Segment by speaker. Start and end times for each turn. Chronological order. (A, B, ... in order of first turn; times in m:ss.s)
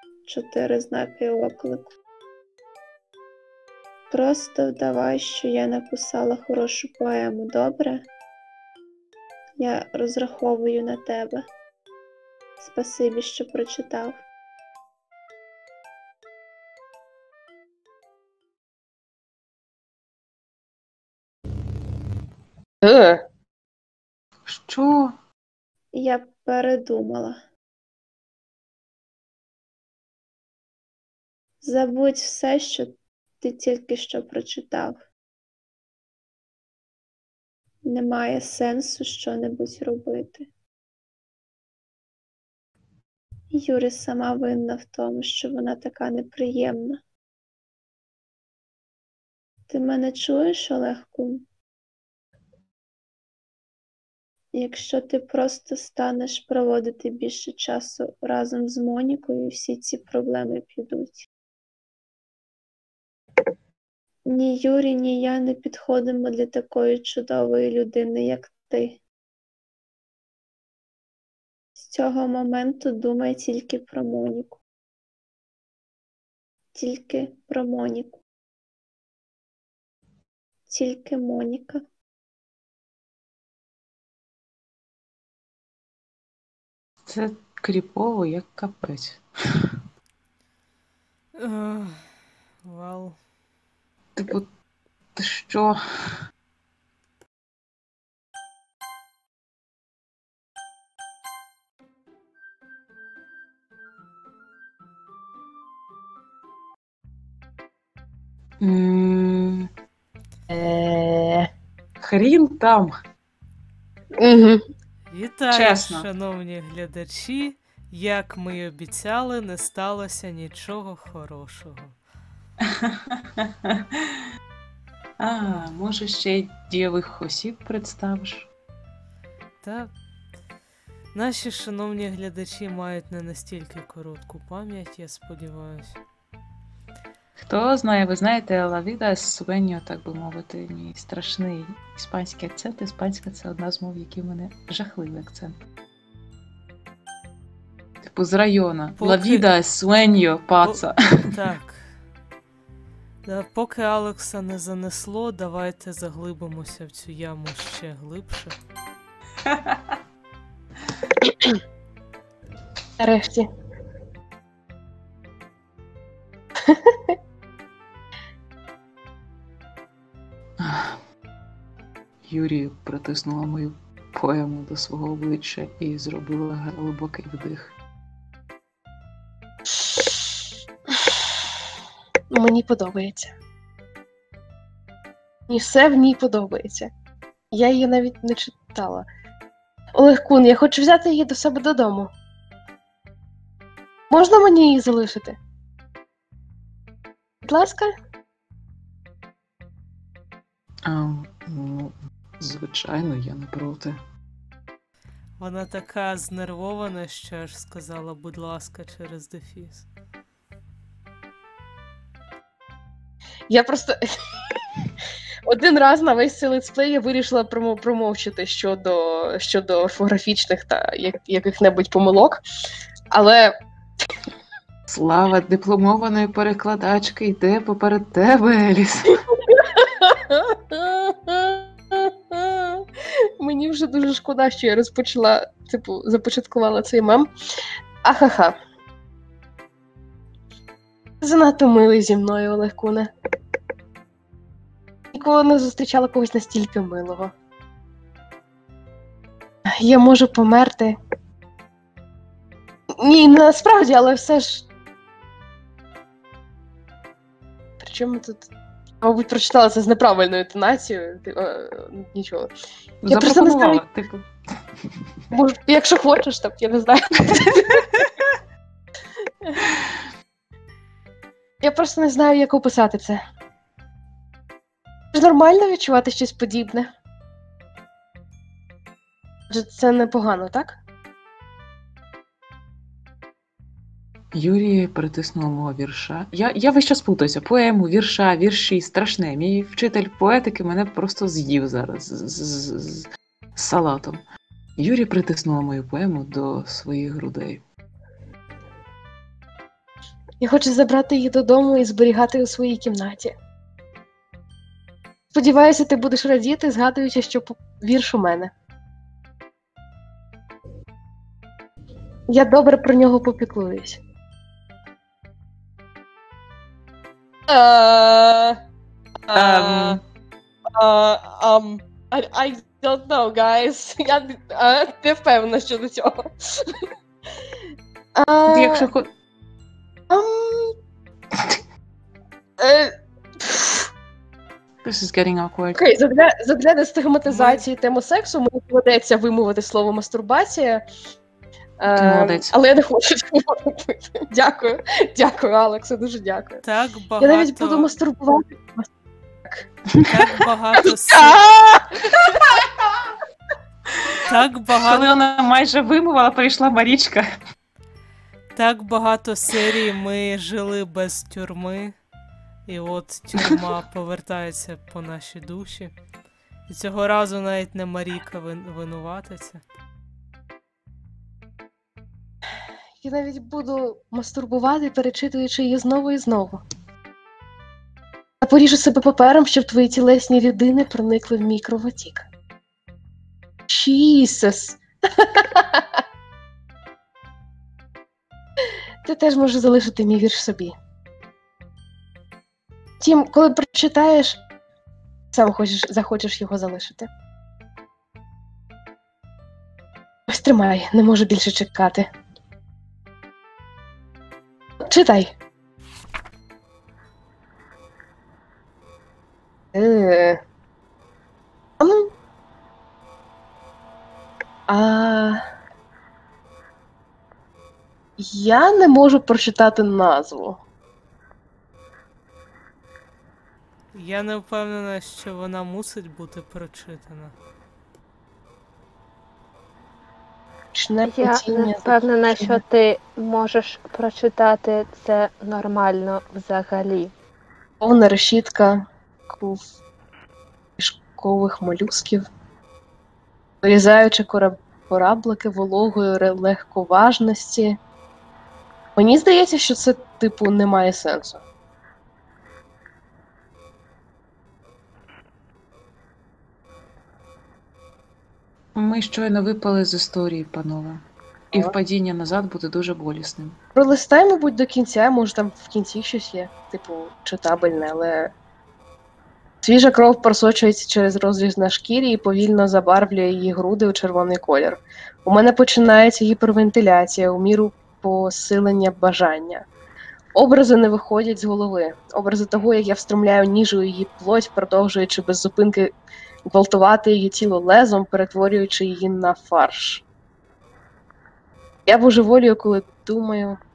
0:00.2-0:01.9 A
0:04.1-0:08.1 A
0:09.6-0:11.5 A
0:12.6-0:14.2 A
0:22.8-0:23.2 B
0:24.4-0:25.1 C
0:25.9-0:27.4 A
0:31.6-0:35.0 A
0:37.8-0:40.5 A
0:43.5-0:47.0 A
0:49.7-0:51.4 A
0:54.5-1:01.3 A
1:04.2-1:09.0 A
1:11.8-1:14.6 A
1:16.7-1:18.2 A
1:20.7-1:21.8 A
1:27.0-1:29.2 C
1:31.4-1:33.2 D
1:34.2-1:34.5 C
1:35.1-1:35.8 C
1:48.6-1:49.7 C
1:50.5-1:51.5 B
1:52.0-1:52.9 C
1:54.2-1:54.6 B
1:55.1-2:02.0 D
1:55.5-1:56.1 C
2:02.6-2:04.2 C
2:05.2-2:08.5 C
2:09.6-2:09.9 D
2:11.1-2:16.0 D
2:17.4-2:25.6 C
2:28.0-2:31.2 C
2:29.0-2:29.4 D
2:30.6-2:31.9 D
2:33.2-2:38.5 D
2:39.4-2:39.9 C
2:41.2-2:41.6 B
2:43.0-2:43.5 B
2:46.6-2:47.1 B
2:50.6-2:51.0 C
2:52.2-2:57.7 C
2:59.8-3:00.1 B
3:02.3-3:03.3 B
3:05.5-3:06.9 B
3:07.5-3:09.0 B
3:09.9-3:12.1 B
3:14.1-3:15.4 B
3:17.4-3:17.9 B
3:20.8-3:24.0 C
3:25.4-3:29.9 D
3:33.5-3:34.0 B
3:35.4-3:42.4 B
3:43.1-3:43.5 B
3:44.9-3:49.2 C
3:49.4-3:52.9 B
3:53.4-3:57.3 B
3:58.0-3:58.5 B
4:01.2-4:03.1 B
4:05.1-4:07.3 B
4:09.7-4:11.0 B
4:13.0-4:14.7 B
4:17.8-4:18.4 B
4:19.0-4:22.5 B
4:23.0-4:24.3 C
4:23.0-4:23.8 B
4:25.3-4:28.1 B
4:31.6-4:33.2 B
4:35.1-4:36.9 B
4:39.5-4:40.8 B
4:44.3-4:54.2 C
4:54.8-4:57.6 C
5:00.4-5:03.3 B
5:05.3-5:08.5 B
5:12.3-5:14.0 B
5:17.5-5:18.6 B
5:19.2-5:20.0 B
5:19.3-5:20.0 C
5:20.7-5:26.8 B
5:28.1-5:28.9 B
5:28.5-5:29.1 C
5:30.1-5:30.7 B
5:32.6-5:33.9 B
5:34.8-5:35.9 C
5:35.8-5:40.8 B
5:37.3-5:37.6 D
5:41.8-5:46.6 B
5:41.9-5:42.5 C
5:46.6-5:48.0 D
5:47.2-5:48.9 B
5:50.0-5:51.4 D
5:51.2-5:52.2 C
5:54.0-5:54.2 C
5:54.2-5:55.2 D
5:54.8-5:57.3 C
5:58.5-6:02.0 D
6:02.7-6:05.9 D
6:06.7-6:09.6 D
6:13.0-6:16.6 B
6:18.4-6:22.2 B
6:23.7-6:26.0 B
6:29.0-6:30.7 B
6:33.0-6:34.4 B
6:35.3-6:37.1 B
6:40.3-6:42.1 B
6:44.8-6:45.3 B
6:49.7-6:50.4 B
6:51.8-6:52.1 B
6:54.7-6:55.4 B
6:58.2-7:00.6 B
7:03.9-7:07.3 D
7:10.7-7:12.6 B
7:11.0-7:17.1 E
7:17.8-7:19.6 B
7:20.8-7:22.2 B
7:23.6-7:27.8 B
7:29.0-7:31.4 B
7:38.8-7:43.6 C
7:43.7-7:48.3 B
7:49.6-7:59.6 B
8:00.3-8:05.9 B
8:06.5-8:10.0 B
8:11.9-8:13.6 B